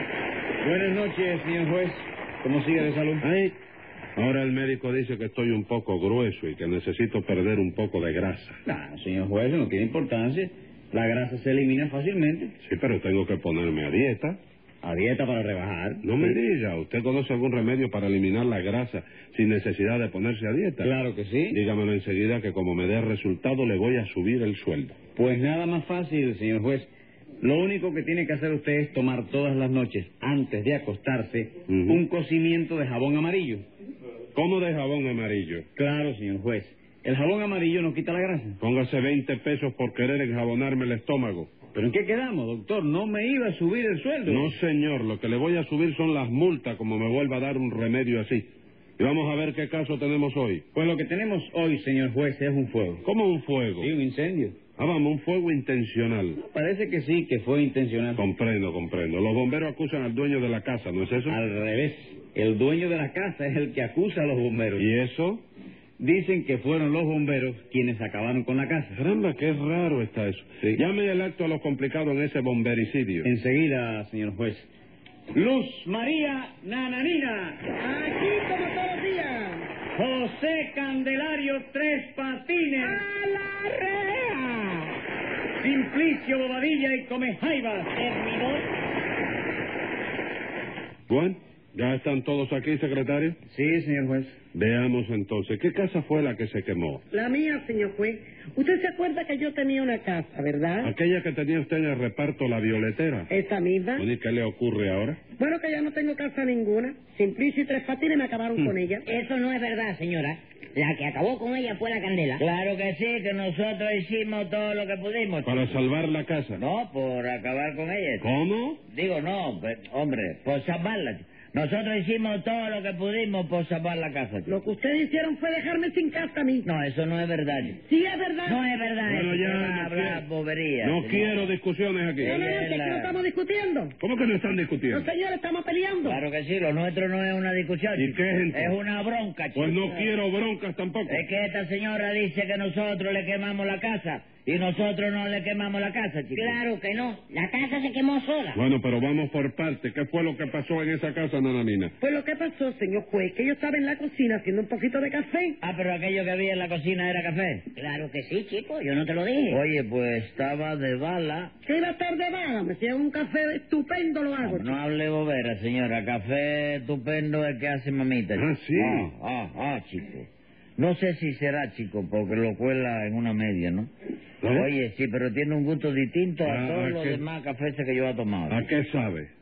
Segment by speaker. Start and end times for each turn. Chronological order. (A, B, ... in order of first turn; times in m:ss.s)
0:00.6-0:03.3 A
0:03.2-0:03.6 B
0:04.2-0:08.6 B
0:08.7-0:12.5 A
0:12.6-0:14.4 B
0:14.8-0:16.4 A
0:16.0-0:20.9 B
0:20.8-0:21.6 A
0:21.5-0:25.0 B
0:25.2-0:33.6 A
0:31.7-0:32.0 B
0:34.3-0:35.7 B
0:35.8-0:38.6 A
0:38.6-0:41.7 B
0:41.7-0:44.6 A
0:44.3-0:50.7 B
0:50.7-0:53.0 A
0:53.0-0:53.9 B
0:53.8-0:54.6 A
0:54.8-0:56.4 B
0:56.4-0:58.2 A
0:58.2-1:01.4 B
1:01.3-1:04.9 A
1:04.8-1:05.4 B
1:06.0-1:09.0 A
1:09.0-1:13.3 B
1:13.2-1:14.7 A
1:15.3-1:17.6 A
1:17.8-1:19.7 C
1:19.9-1:23.0 A
1:22.8-1:24.0 C
1:25.6-1:28.7 A
1:31.1-1:33.4 B
1:33.5-1:34.4 A
1:34.5-1:37.0 B
1:37.1-1:40.9 C
1:40.8-1:43.3 B
1:43.3-1:44.1 C
1:44.0-1:45.2 B
1:45.4-1:49.0 C
1:49.1-1:52.4 D
1:52.4-1:55.8 E
1:55.4-1:56.6 B
1:56.6-1:58.3 E
1:58.2-1:58.8 B
1:58.9-2:04.6 E
2:04.5-2:06.7 C
2:06.6-2:07.8 E
2:07.9-2:08.6 C
2:08.5-2:11.5 E
2:09.1-2:10.2 B
2:10.8-2:12.4 B
2:12.2-2:13.2 E
2:12.2-2:13.9 C
2:14.0-2:15.1 B
2:14.9-2:16.2 C
2:16.0-2:19.9 E
2:18.0-2:18.8 B
2:19.6-2:21.2 B
2:21.1-2:26.6 E
2:26.3-2:28.6 D
2:28.5-2:31.9 B
2:32.0-2:35.6 C
2:35.6-2:37.7 E
2:37.8-2:39.6 D
2:39.5-2:41.5 E
2:41.6-2:44.8 C
2:44.4-2:53.9 E
2:48.4-2:49.1 B
2:54.4-2:54.7 B
2:54.5-2:58.7 E
2:56.4-2:57.2 B
2:58.5-2:59.3 B